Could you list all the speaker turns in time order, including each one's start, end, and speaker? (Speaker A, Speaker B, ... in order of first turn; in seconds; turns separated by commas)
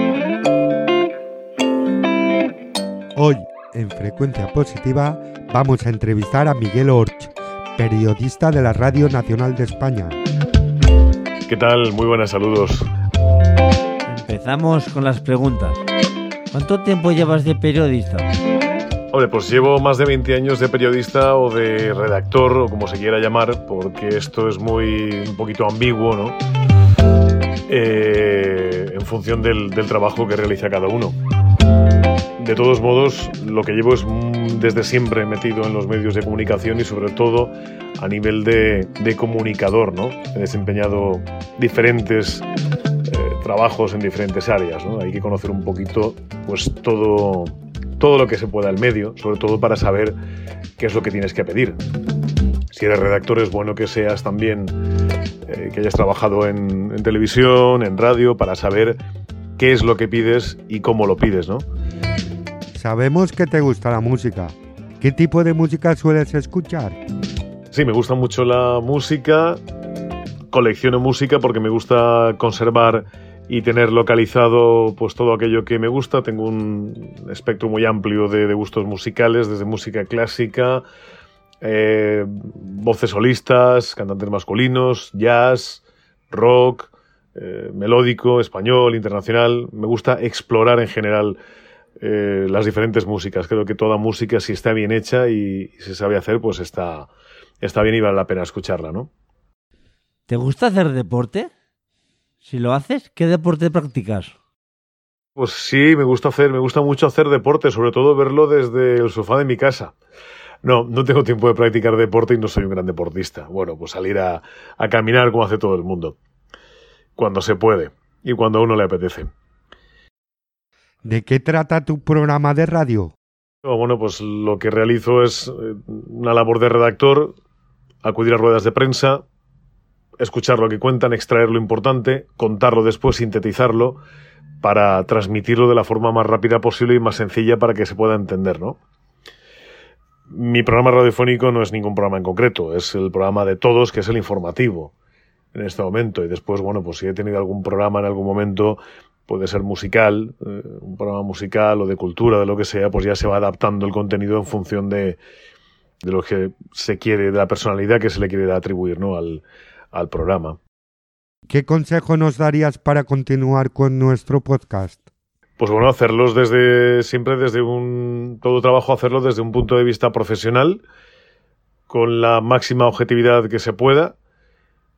Speaker A: 3.2-10.2, Speaker B: 11.5-12.9, Speaker C: 14.1-15.8, Speaker C: 16.5-18.3, Speaker B: 19.1-26.4, Speaker B: 27.7-31.2, Speaker B: 32.4-42.5, Speaker B: 43.1-50.2, Speaker B: 50.8-51.8, Speaker B: 52.7-54.7, Speaker B: 55.5-59.0, Speaker B: 59.6-61.6, Speaker A: 62.8-67.0, Speaker B: 67.7-69.6, Speaker B: 70.5-80.8, Speaker B: 81.6-91.4, Speaker B: 92.0-97.1, Speaker B: 97.6-99.1, Speaker C: 100.3-101.5, Speaker C: 102.4-104.3, Speaker B: 105.4-110.0, Speaker B: 110.6-116.2, Speaker B: 117.2-119.3, Speaker A: 121.0-123.1, Speaker B: 123.6-127.4, Speaker B: 128.0-129.2, Speaker B: 130.2-134.0, Speaker B: 134.6-138.8, Speaker B: 140.3-144.9, Speaker B: 145.5-155.2, Speaker B: 156.0-160.6, Speaker A: 161.5-165.0, Speaker B: 165.6-170.8, Speaker B: 171.9-174.2